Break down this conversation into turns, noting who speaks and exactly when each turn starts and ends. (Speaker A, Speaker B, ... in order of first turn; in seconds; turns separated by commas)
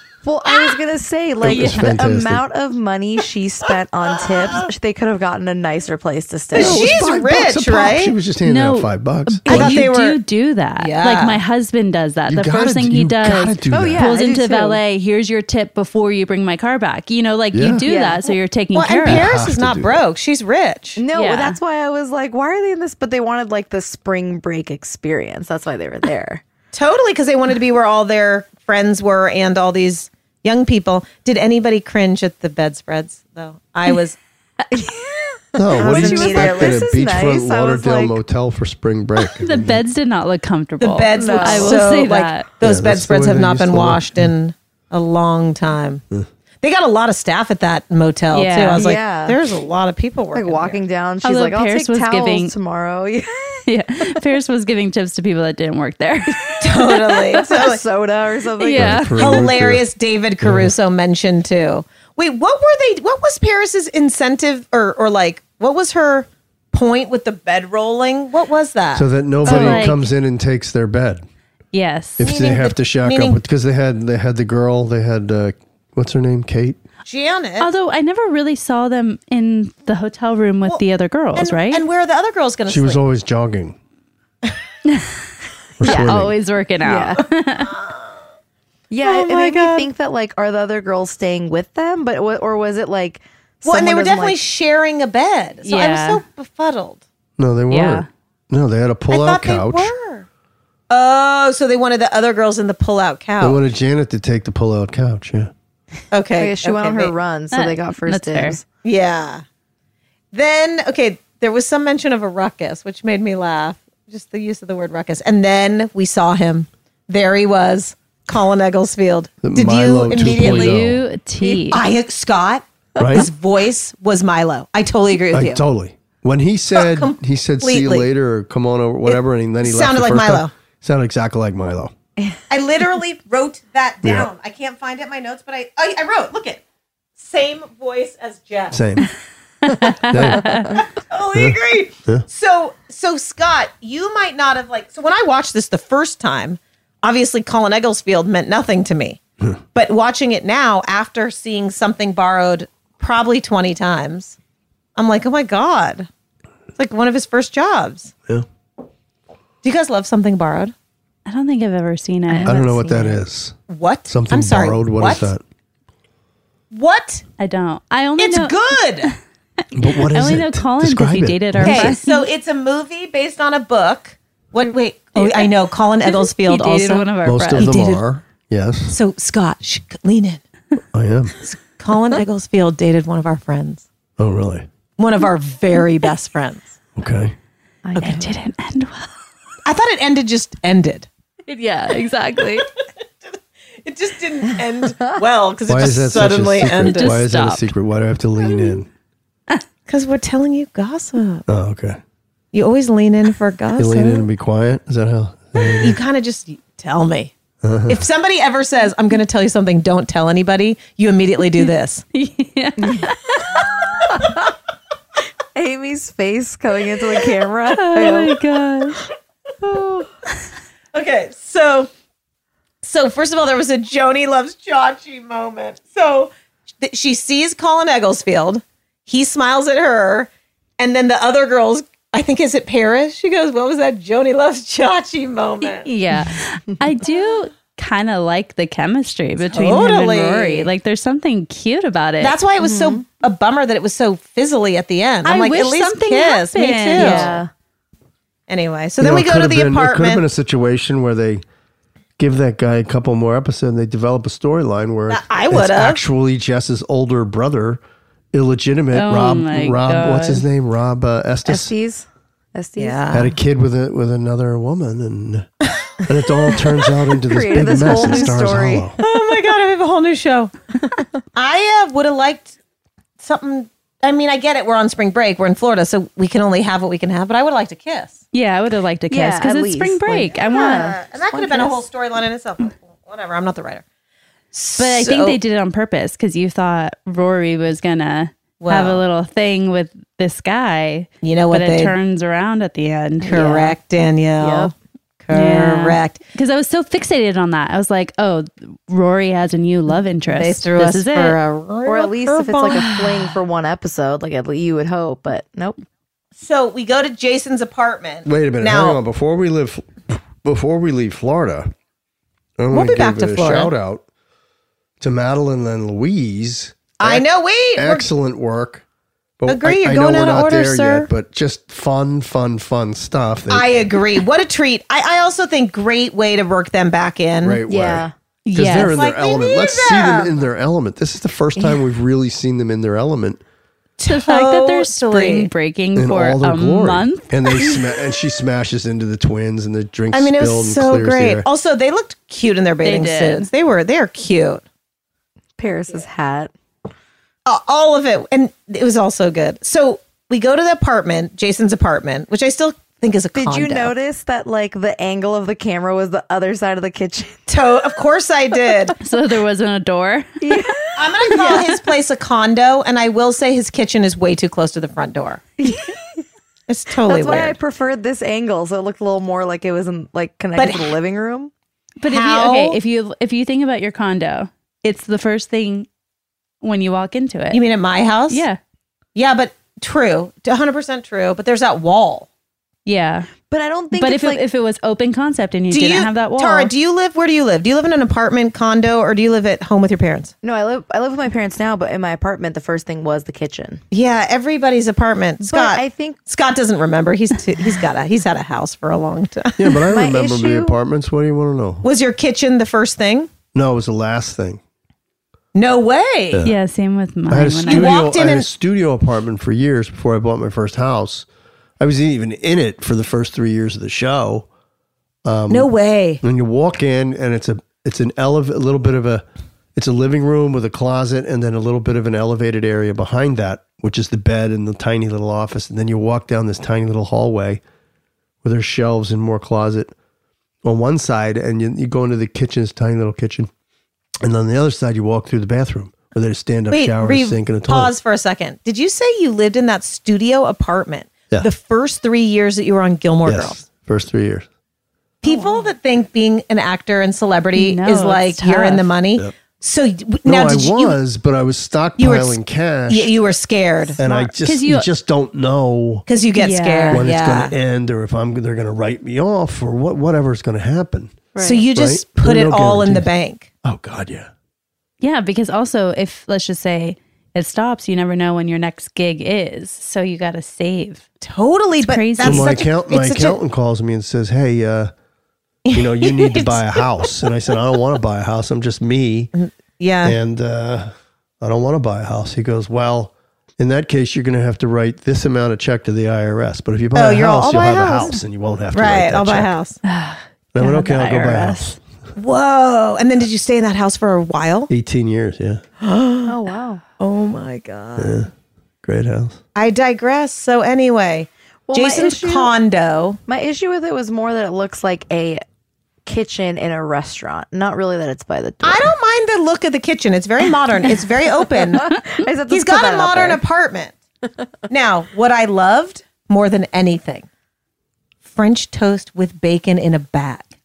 Speaker A: 0.2-7.0, Speaker B: 1.4-2.5, Speaker C: 1.5-1.9, Speaker D: 6.5-8.1, Speaker B: 6.5-9.9, Speaker C: 8.4-19.3, Speaker D: 9.5-10.2, Speaker D: 10.8-11.4, Speaker B: 12.3-14.1, Speaker A: 13.7-14.8, Speaker B: 17.5-17.9, Speaker A: 17.8-18.3, Speaker D: 18.7-21.0, Speaker B: 19.1-20.0, Speaker A: 21.0-26.4, Speaker C: 21.1-21.6, Speaker D: 26.7-34.2, Speaker B: 35.6-39.8, Speaker A: 35.6-38.2, Speaker D: 35.9-36.8, Speaker C: 39.4-42.5, Speaker D: 40.8-46.0, Speaker A: 41.1-41.9, Speaker B: 42.6-44.3, Speaker D: 46.6-50.8, Speaker C: 48.3-48.9, Speaker A: 48.7-49.4, Speaker A: 50.3-53.6, Speaker C: 51.2-52.5, Speaker C: 53.7-57.4, Speaker D: 56.6-57.8, Speaker A: 57.4-59.1, Speaker C: 58.6-59.5, Speaker B: 58.7-59.8, Speaker D: 59.2-69.9, Speaker B: 60.4-60.7, Speaker B: 68.9-71.2, Speaker C: 69.5-70.0, Speaker C: 71.7-72.2, Speaker B: 72.2-76.8, Speaker D: 72.2-73.4, Speaker D: 77.1-77.7, Speaker C: 77.6-81.8, Speaker D: 81.4-83.0, Speaker B: 82.7-83.8, Speaker B: 85.8-86.3, Speaker C: 85.8-87.7, Speaker A: 85.8-86.2, Speaker A: 86.8-87.2, Speaker A: 88.9-94.4, Speaker D: 89.0-89.9, Speaker D: 93.7-97.0, Speaker C: 95.7-96.2, Speaker B: 97.4-99.9, Speaker C: 97.7-98.1, Speaker D: 99.1-100.3, Speaker D: 100.9-103.6, Speaker B: 103.4-105.5, Speaker D: 106.1-107.1, Speaker A: 106.3-108.7, Speaker C: 107.5-108.6, Speaker D: 108.8-109.4, Speaker D: 110.3-120.8, Speaker B: 119.4-121.0, Speaker C: 120.1-121.8, Speaker D: 121.7-125.6, Speaker A: 123.0-123.2, Speaker B: 123.0-123.3, Speaker B: 125.3-131.9, Speaker D: 126.7-128.1, Speaker D: 129.1-130.5, Speaker D: 132.5-136.6, Speaker B: 134.0-134.3, Speaker D: 137.2-138.8, Speaker B: 138.7-139.1, Speaker C: 139.7-140.8, Speaker B: 140.1-140.7, Speaker D: 141.1-149.2, Speaker B: 141.3-142.3, Speaker D: 149.7-154.4, Speaker D: 155.0-156.1, Speaker D: 156.8-158.1, Speaker D: 159.6-160.7, Speaker C: 161.3-163.2, Speaker A: 162.3-162.8, Speaker B: 162.4-163.6, Speaker D: 163.7-165.3, Speaker B: 164.1-165.4, Speaker D: 166.7-167.2, Speaker C: 167.4-169.2, Speaker D: 168.2-169.1, Speaker B: 169.7-172.0, Speaker C: 169.9-172.3, Speaker D: 171.6-178.0, Speaker C: 175.2-177.9, Speaker B: 177.2-179.0, Speaker D: 178.9-180.4, Speaker B: 180.9-181.3, Speaker D: 181.4-183.9, Speaker B: 184.2-184.7, Speaker D: 185.0-186.8, Speaker B: 187.0-187.3, Speaker A: 187.8-188.3, Speaker C: 188.0-189.1, Speaker D: 189.7-191.1, Speaker C: 191.5-192.7, Speaker D: 193.8-197.2, Speaker B: 195.7-198.9, Speaker C: 196.7-197.7, Speaker D: 199.9-201.4, Speaker B: 201.5-202.0, Speaker D: 202.5-204.2, Speaker B: 203.8-206.0, Speaker D: 205.7-207.3, Speaker B: 207.6-208.0, Speaker D: 207.9-212.0, Speaker C: 211.6-213.5, Speaker A: 215.6-218.4, Speaker C: 217.7-219.0, Speaker D: 220.9-221.9, Speaker D: 222.8-226.3, Speaker D: 226.8-235.9, Speaker C: 235.8-242.4, Speaker D: 239.5-240.7, Speaker D: 242.2-247.4, Speaker A: 242.6-243.1, Speaker C: 245.2-247.4, Speaker A: 246.9-247.5, Speaker D: 248.5-250.2, Speaker B: 249.0-251.4, Speaker B: 252.2-257.8, Speaker D: 255.1-256.0, Speaker B: 258.3-261.7, Speaker C: 258.9-260.4, Speaker A: 261.5-263.1, Speaker D: 262.8-263.4, Speaker B: 263.1-265.5, Speaker B: 266.1-269.0, Speaker A: 267.3-268.9, Speaker D: 268.0-268.2, Speaker D: 269.0-270.6, Speaker D: 271.3-272.6, Speaker D: 273.2-278.2, Speaker C: 278.3-280.9, Speaker A: 279.1-281.8, Speaker D: 280.5-283.8, Speaker D: 284.5-285.4, Speaker C: 284.8-293.5, Speaker D: 288.6-289.0, Speaker D: 291.2-291.9, Speaker D: 293.2-294.7, Speaker A: 293.3-293.7, Speaker A: 294.4-294.7, Speaker D: 295.2-296.2, Speaker C: 295.3-301.4, Speaker D: 300.3-302.9, Speaker A: 301.9-305.8, Speaker D: 306.4-309.0, Speaker B: 308.2-311.7, Speaker B: 312.6-314.0, Speaker D: 312.7-313.7, Speaker B: 315.0-317.2, Speaker D: 317.0-318.1, Speaker B: 317.8-318.8, Speaker B: 319.4-323.8, Speaker D: 319.5-321.1, Speaker D: 323.5-327.6, Speaker B: 327.4-333.4, Speaker A: 327.7-328.1, Speaker C: 328.5-329.0, Speaker D: 328.8-330.3, Speaker D: 334.0-335.5, Speaker C: 334.1-337.3, Speaker B: 336.0-341.5, Speaker D: 340.1-344.6, Speaker C: 342.8-343.5, Speaker A: 345.6-346.5, Speaker D: 347.5-353.9, Speaker A: 353.4-357.4, Speaker D: 357.5-358.9, Speaker C: 359.0-360.4, Speaker A: 360.4-361.7, Speaker D: 361.0-365.4, Speaker A: 365.6-365.9, Speaker D: 366.7-367.6, Speaker A: 367.1-371.5, Speaker D: 370.6-371.0, Speaker C: 372.0-375.9, Speaker D: 372.1-372.8, Speaker C: 376.6-377.6, Speaker D: 377.5-378.4, Speaker C: 378.3-378.6, Speaker D: 379.1-382.3, Speaker C: 382.9-383.3, Speaker A: 383.5-384.4, Speaker C: 383.9-386.7, Speaker D: 385.7-390.3, Speaker A: 390.4-393.8, Speaker D: 393.9-399.7, Speaker A: 395.4-396.2, Speaker B: 399.6-401.9, Speaker A: 399.9-400.8, Speaker D: 401.8-403.3, Speaker B: 403.5-404.6, Speaker D: 405.5-406.4, Speaker C: 406.4-408.0, Speaker B: 407.3-411.3, Speaker D: 407.7-408.5, Speaker B: 411.8-414.5, Speaker B: 415.2-415.7, Speaker D: 415.5-416.2, Speaker B: 416.2-427.6, Speaker B: 428.4-429.9, Speaker B: 430.6-433.5, Speaker B: 434.2-437.9, Speaker D: 436.7-443.6, Speaker B: 443.2-444.5, Speaker D: 445.2-451.0, Speaker C: 447.6-448.9, Speaker B: 450.2-453.1, Speaker D: 452.0-454.0, Speaker B: 454.0-456.1, Speaker C: 454.0-454.9, Speaker D: 456.1-457.5, Speaker C: 456.4-457.1, Speaker B: 456.9-463.1, Speaker A: 461.4-461.7, Speaker D: 461.4-463.5, Speaker B: 463.6-464.3, Speaker C: 465.0-471.1, Speaker D: 471.2-473.4, Speaker C: 471.8-472.5, Speaker B: 472.2-474.9, Speaker D: 475.7-476.8, Speaker B: 475.7-479.3, Speaker D: 479.4-480.2, Speaker B: 480.0-489.5, Speaker D: 486.9-488.2, Speaker D: 488.7-489.8, Speaker C: 489.9-491.8, Speaker B: 490.5-491.8, Speaker D: 492.2-494.7, Speaker B: 494.7-495.6, Speaker D: 495.8-496.3, Speaker A: 496.3-496.8, Speaker D: 497.0-498.2, Speaker B: 498.0-498.3, Speaker B: 498.8-499.4, Speaker D: 499.6-503.2, Speaker A: 501.7-502.5, Speaker A: 503.3-505.4, Speaker A: 506.1-508.9, Speaker D: 508.6-512.0, Speaker A: 511.8-513.4, Speaker D: 512.5-514.0, Speaker D: 514.7-517.3, Speaker D: 518.2-520.5